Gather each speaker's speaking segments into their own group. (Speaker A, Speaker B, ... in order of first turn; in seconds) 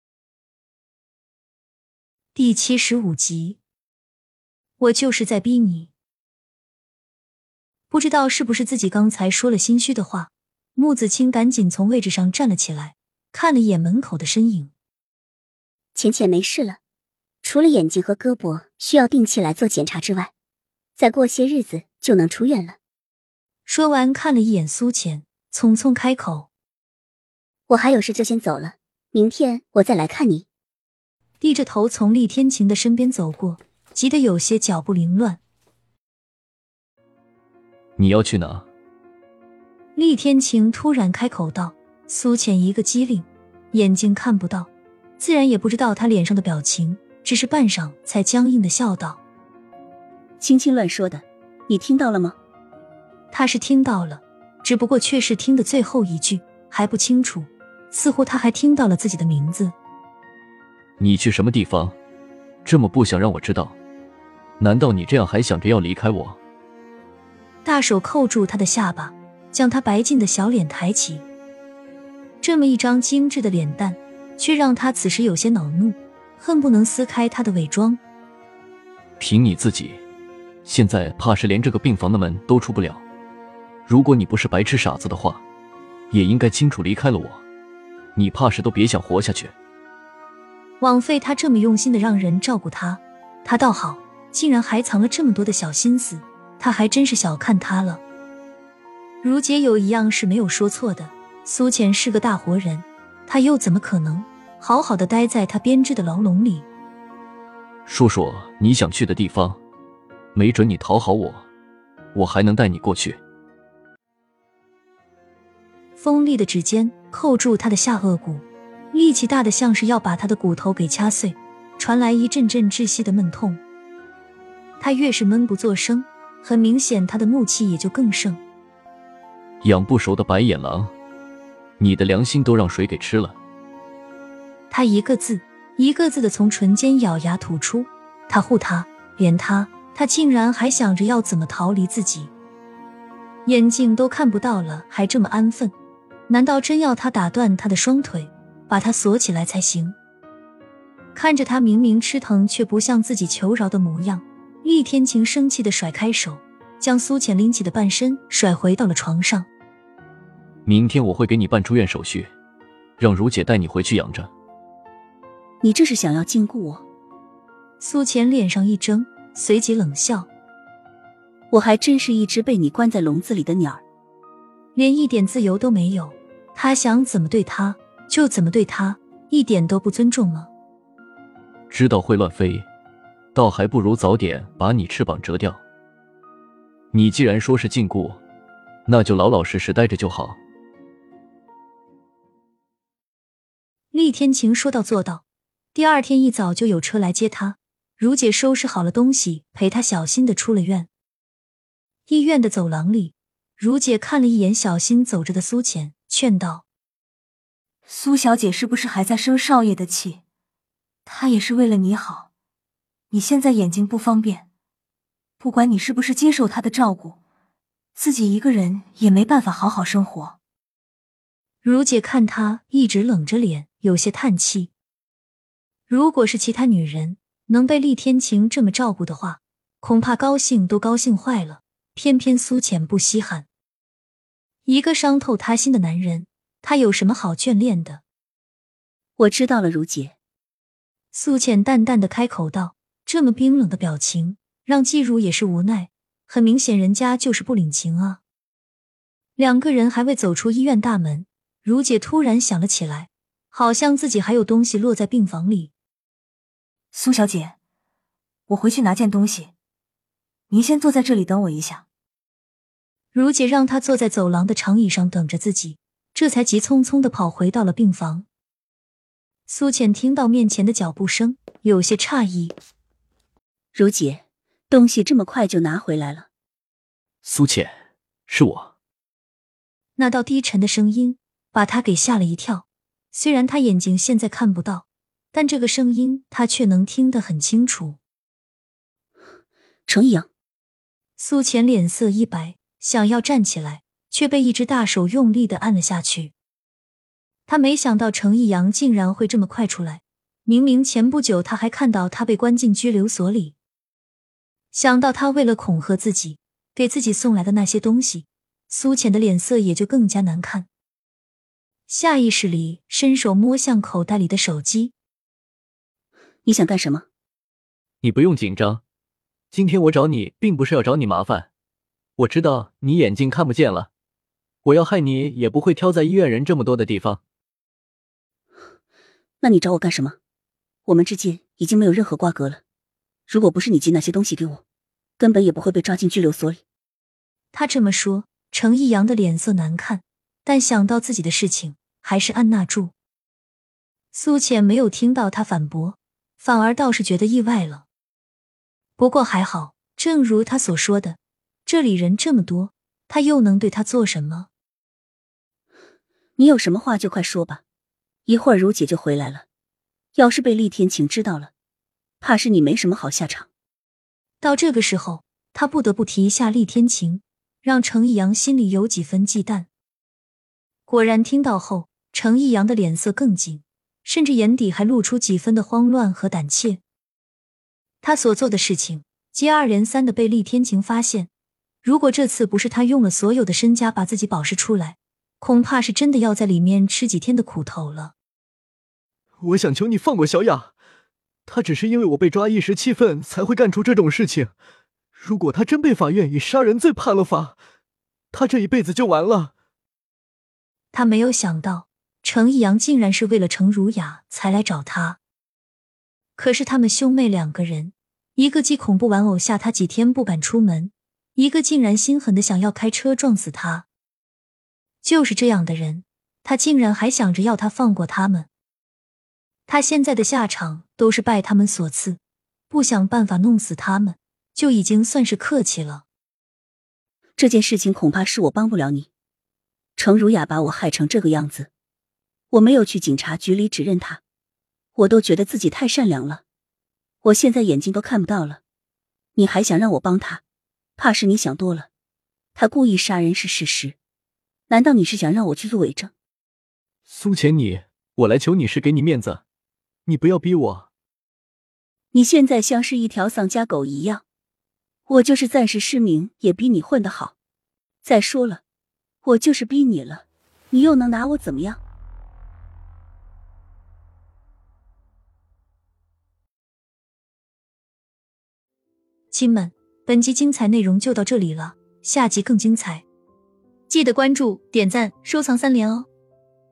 Speaker A: 2.4-3.6, 4.8-5.9, 7.9-14.7, 23.7-26.5, 31.4-35.4, 40.0-49.2, 53.3-59.8, 67.6-71.2, 72.4-78.0, 90.8-98.0, 99.2-106.7, 116.0-123.6, 124.8-128.4, 134.7-142.3, 143.5-145.7, 146.3-150.0, 151.2-159.5, 167.8-170.3, 174.8-180.5, 193.9-195.2, 195.7-200.9, 202.1-206.7, 221.6-224.7, 225.9-233.5, 234.7-238.0, 241.1-248.2, 249.4-255.7, 263.1-268.3, 269.5-272.6, 280.0-288.0, 291.2-296.3, 297.5-303.6, 304.7-310.7, 311.9-314.9, 337.5-342.9, 344.1-347.9, 349.0-354.5, 364.4-369.7, 370.9-376.8, 378.0-381.3, 381.8-388.1, 400.9-405.2, 406.4-413.9, 415.0-418.5, 419.7-426.1, 469.3-473.1, 473.9-476.1
Speaker B: 15.9-16.8, 17.4-20.3, 21.0-22.8, 27.7-30.4
Speaker C: 18.9-19.7, 21.0-22.4, 28.0-28.5, 29.1-30.3, 50.4-52.4, 165.6-166.8, 171.5-173.8, 239.2-240.2, 273.7-276.3, 289.9-290.3, 316.4-317.1, 329.4-330.2, 330.9-332.6, 333.3-334.6, 335.2-336.6, 356.4-357.6, 358.3-359.5, 360.1-361.5, 362.2-363.5, 427.4-429.1, 430.0-431.7, 432.5-434.2, 434.9-436.4, 437.2-438.6, 439.4-440.4, 441.0-441.9, 442.6-444.0, 444.7-446.1, 452.1-454.2, 455.1-457.4, 458.0-458.6, 459.2-461.8
Speaker D: 38.0-38.7, 61.0-62.0, 62.6-63.8, 64.6-66.4, 79.2-80.0, 80.7-83.0, 83.9-85.4, 86.1-87.4, 88.2-89.5, 107.9-109.6, 110.3-111.5, 112.1-113.2, 129.6-130.9, 131.8-133.4, 160.7-162.3, 163.0-164.3, 181.7-182.7, 183.3-185.6, 186.9-188.2, 188.9-190.4, 277.2-278.7, 318.0-318.8, 319.5-321.5, 322.2-323.9, 324.6-327.2, 389.4-390.7, 391.5-394.5, 395.1-397.6, 398.3-399.5, 447.1-449.4, 450.1-450.9
Speaker E: 207.9-210.2, 211.1-212.3, 213.1-214.5, 215.4-217.2, 218.0-220.4, 256.9-257.6, 258.5-259.5, 260.5-261.9